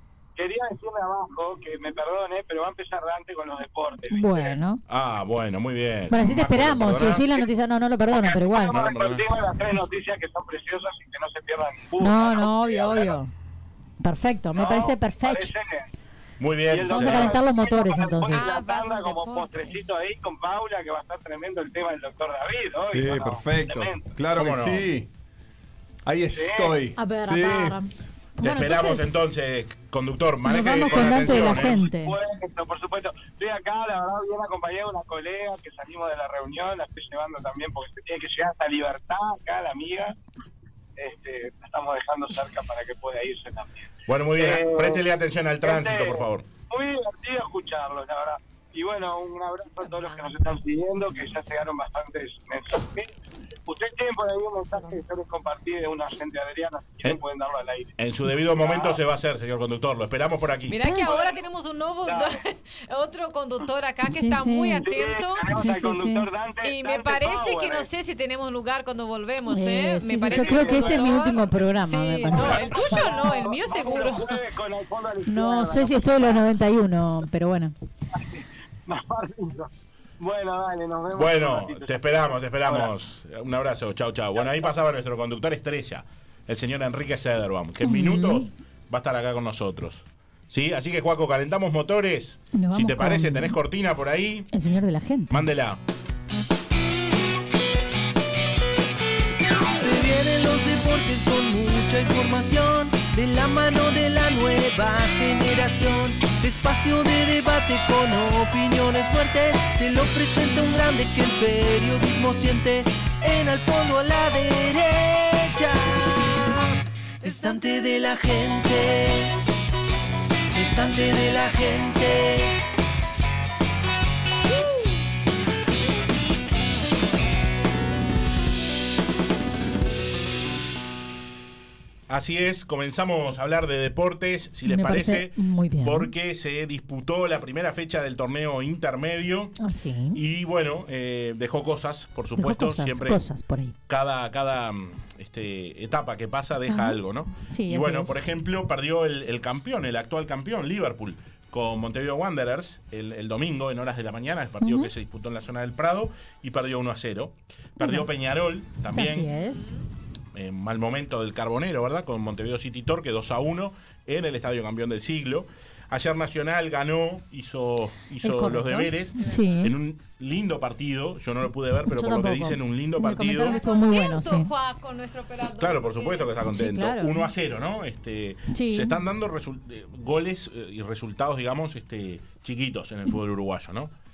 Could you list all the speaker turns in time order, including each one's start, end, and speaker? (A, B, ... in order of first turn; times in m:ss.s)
0:00.4-0:04.5 A
0:04.1-0:04.8 B
0:04.9-0:07.2 C
0:06.1-0:08.8 B
0:07.1-0:07.4 A
0:08.1-0:13.2 A
0:08.7-0:09.4 C
0:12.0-0:13.3 B
0:14.0-0:15.5 B
0:14.6-0:15.9 A
0:16.4-0:17.4 C
0:16.7-0:24.0 A
0:16.8-0:18.5 B
0:18.3-0:19.8 D
0:22.8-0:25.1 E
0:24.3-0:24.9 C
0:26.0-0:27.8 E
0:26.4-0:26.8 A
0:27.0-0:29.2 B
0:28.4-0:31.8 C
0:30.4-0:32.1 B
0:30.8-0:40.2 A
0:41.0-0:45.0 A
0:44.1-0:46.4 C
0:45.6-0:53.1 A
0:53.7-0:57.9 A
0:58.0-1:00.8 C
0:58.4-0:59.0 A
1:00.7-1:05.6 D
1:01.0-1:01.4 A
1:02.0-1:02.4 A
1:04.1-1:04.9 B
1:04.8-1:07.9 A
1:05.5-1:06.3 B
1:06.6-1:14.4 D
1:09.5-1:13.0 B
1:10.2-1:11.5 A
1:12.3-1:16.4 A
1:15.3-1:17.7 B
1:18.1-1:19.7 A
1:20.2-1:21.9 A
1:21.1-1:34.5 C
1:24.4-1:24.7 A
1:27.8-1:28.5 B
1:32.5-1:33.5 B
1:34.5-1:35.4 B
1:35.3-1:35.8 C
1:39.7-1:59.3 F
2:00.5-2:02.6 F
2:12.1-2:19.6 C
2:14.7-2:16.1 B
2:19.6-2:20.2 B
2:20.1-2:23.2 C
2:22.4-2:23.7 B
2:23.9-2:39.3 C
2:26.7-2:28.2 B
2:34.6-2:34.9 B
2:37.8-2:38.1 B
2:38.9-2:39.7 B
2:39.4-2:39.8 D
2:40.3-2:53.6 C
2:48.2-2:49.7 B
2:49.2-2:49.7 D
2:51.9-2:54.5 B
2:53.3-2:56.3 D
2:55.6-3:03.9 C
2:56.5-2:57.2 B
2:58.5-2:59.0 B